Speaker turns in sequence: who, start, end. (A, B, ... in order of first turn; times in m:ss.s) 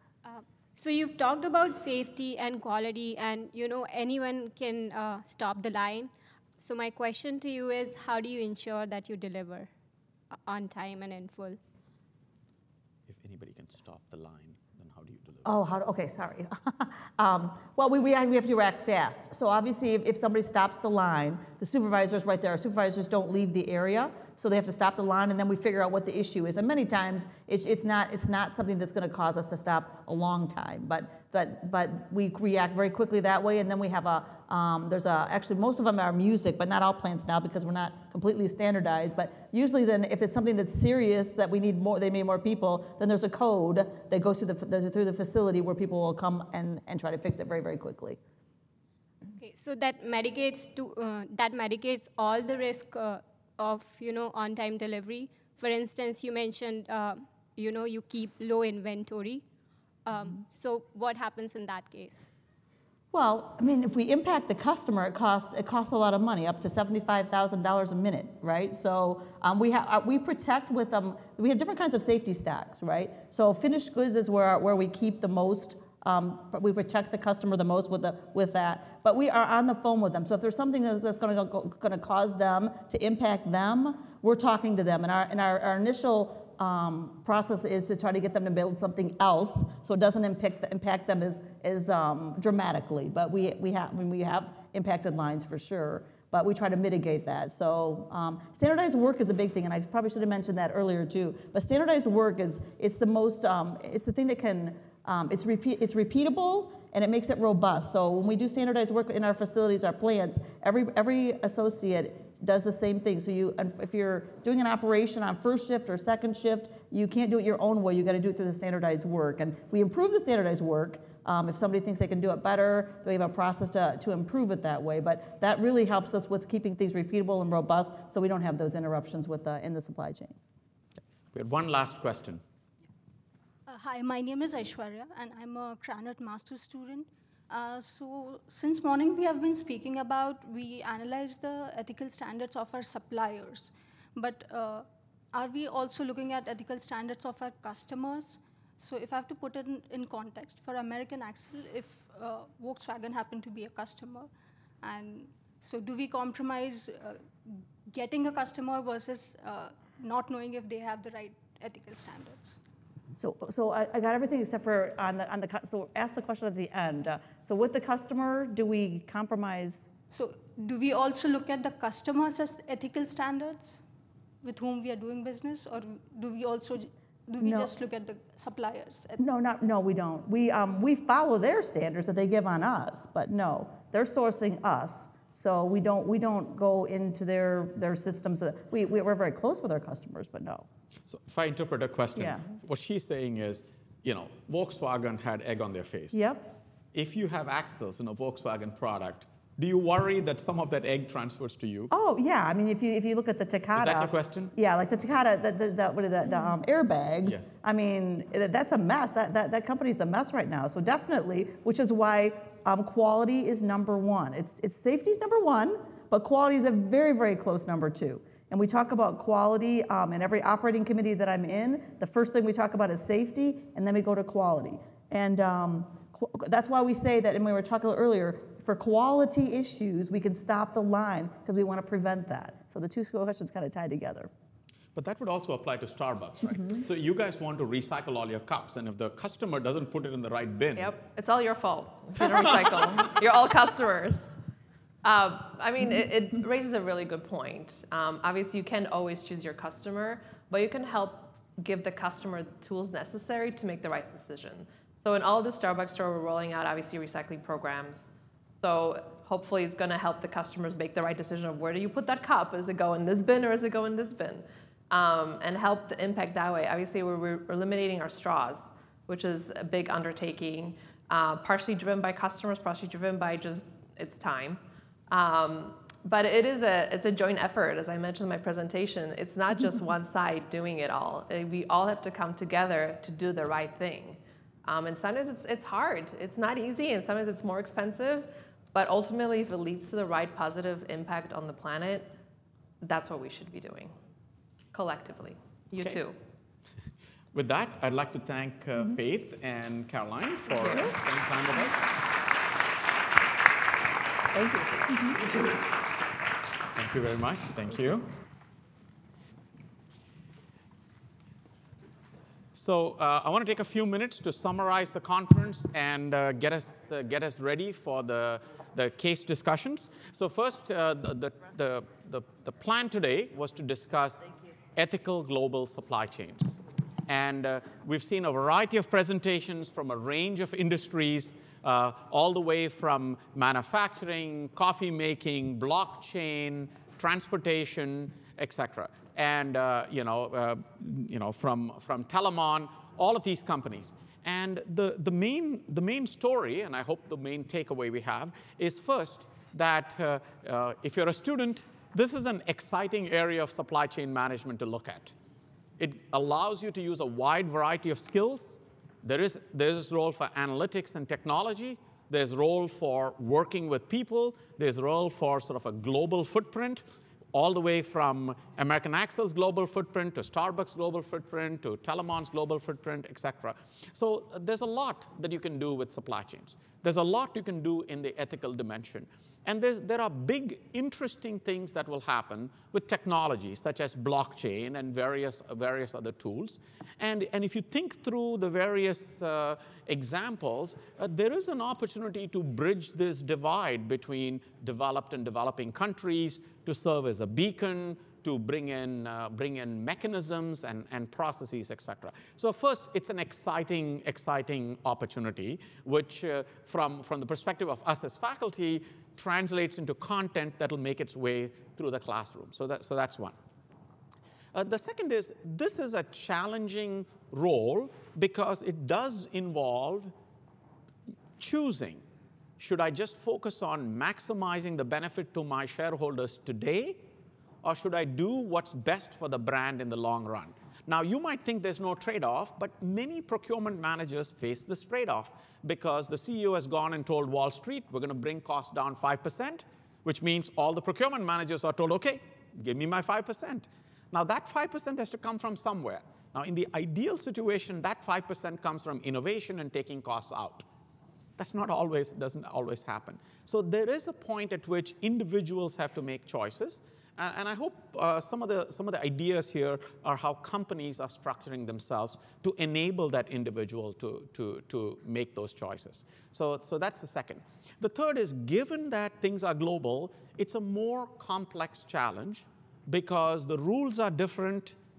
0:00.2-0:09.7 A
0:10.4-0:11.6 A
0:13.1-0:15.5 B
0:15.4-0:48.2 C
0:49.3-0:59.4 A
1:00.1-1:02.3 A
1:03.1-2:10.4 C
2:11.3-2:12.4 B
2:13.7-2:34.3 D
2:34.8-2:42.6 D
2:43.2-2:49.9 C
2:50.1-2:53.8 D
2:54.4-2:59.2 D
2:57.4-2:57.7 C
2:59.2-3:10.6 C
3:11.1-3:16.2 B
3:12.2-3:12.4 C
3:16.1-3:16.5 C
3:16.9-3:21.9 B
3:21.9-3:54.3 C
3:23.7-3:24.5 B
3:27.2-3:27.5 B
3:55.0-4:00.9 B
4:00.8-4:04.3 E
4:05.0-4:52.1 E
4:52.8-4:53.9 E
4:54.7-4:56.1 E
4:57.3-5:01.8 B
5:00.5-5:00.9 E
5:04.4-5:05.2 C
5:06.7-5:08.1 B
5:12.5-5:55.1 B
5:55.8-6:06.8 B
6:07.3-6:53.4 B
6:54.5-7:00.1 B
7:01.4-7:02.0 B
7:02.6-7:07.1 B
7:07.6-7:30.6 B
7:31.4-7:54.8 B